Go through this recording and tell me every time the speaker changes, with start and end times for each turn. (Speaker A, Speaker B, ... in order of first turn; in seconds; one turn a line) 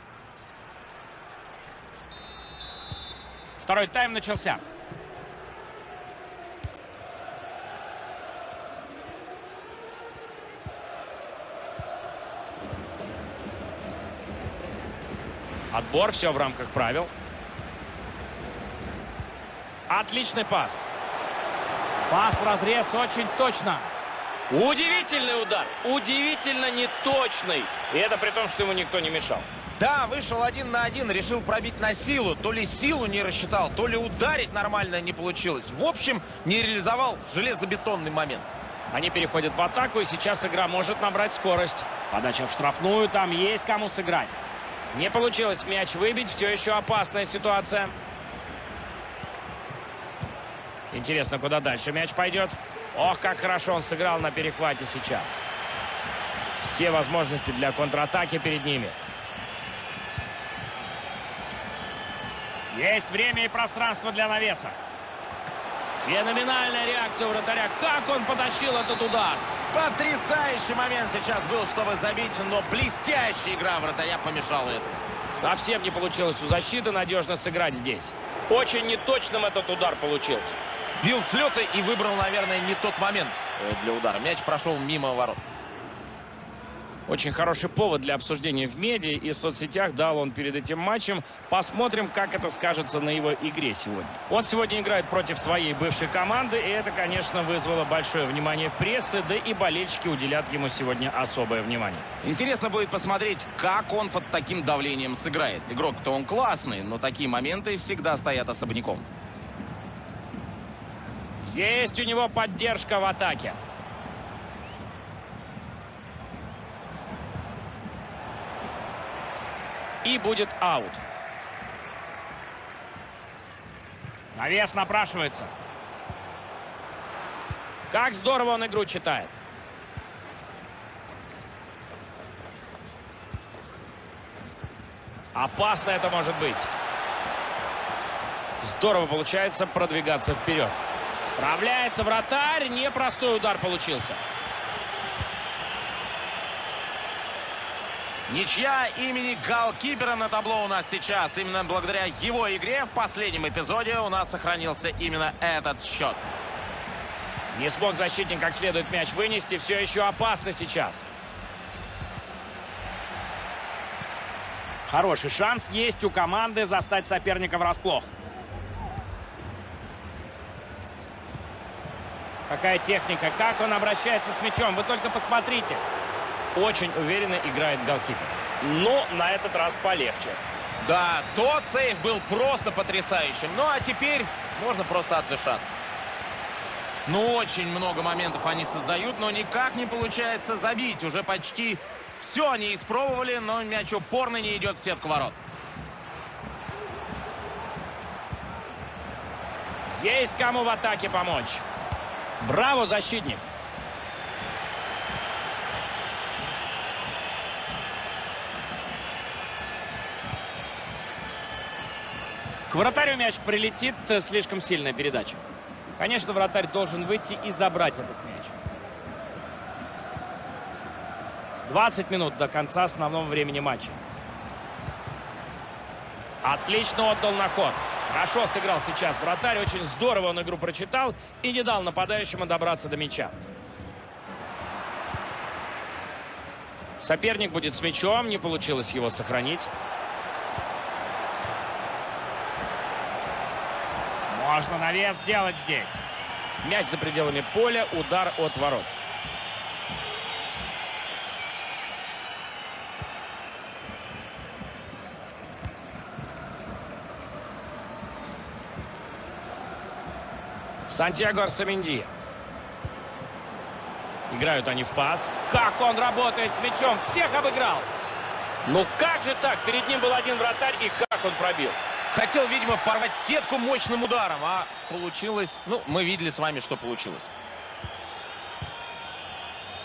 Speaker A: 3.6-4.6
Speaker A: 15.7-17.1
Speaker A: 19.9-20.9
Speaker A: 22.1-23.9
Speaker A: 24.5-29.5
Speaker B: 29.8-38.5
Speaker A: 38.9-44.4
Speaker A: 44.9-47.9
Speaker A: 50.9-55.4
Speaker A: 56.6-59.0
Speaker A: 62.7-64.8
Speaker A: 66.0-69.4
Speaker B: 69.7-75.0
Speaker A: 75.3-80.6
Speaker B: 81.0-85.4
Speaker A: 87.1-102.1
Speaker B: 102.2-109.0
Speaker A: 111.4-113.6
Speaker A: 120.0-121.0
Speaker A: 124.3-125.5
Speaker A: 127.9-129.3
Speaker A: 135.3-136.7
Speaker A: 138.6-144.2
Speaker B: 148.3-156.2
Speaker A: 157.5-161.0
Speaker A: 164.8-168.1
Speaker A: 172.5-175.8
Speaker A: 176.5-180.4
Speaker B: 180.8-185.7
Speaker B: 187.1-195.4
Speaker A: 199.9-201.6
Speaker A: 202.4-203.5
Speaker A: 212.7-215.4
Speaker A: 216.0-218.5
Speaker A: 221.7-224.0
Speaker A: 226.4-233.3
Speaker A: 237.0-239.7
Speaker A: 244.3-246.0
Speaker A: 246.6-249.0
Speaker A: 260.9-262.1
Speaker A: 264.3-267.9
Speaker A: 268.6-271.8
Speaker B: 272.1-277.3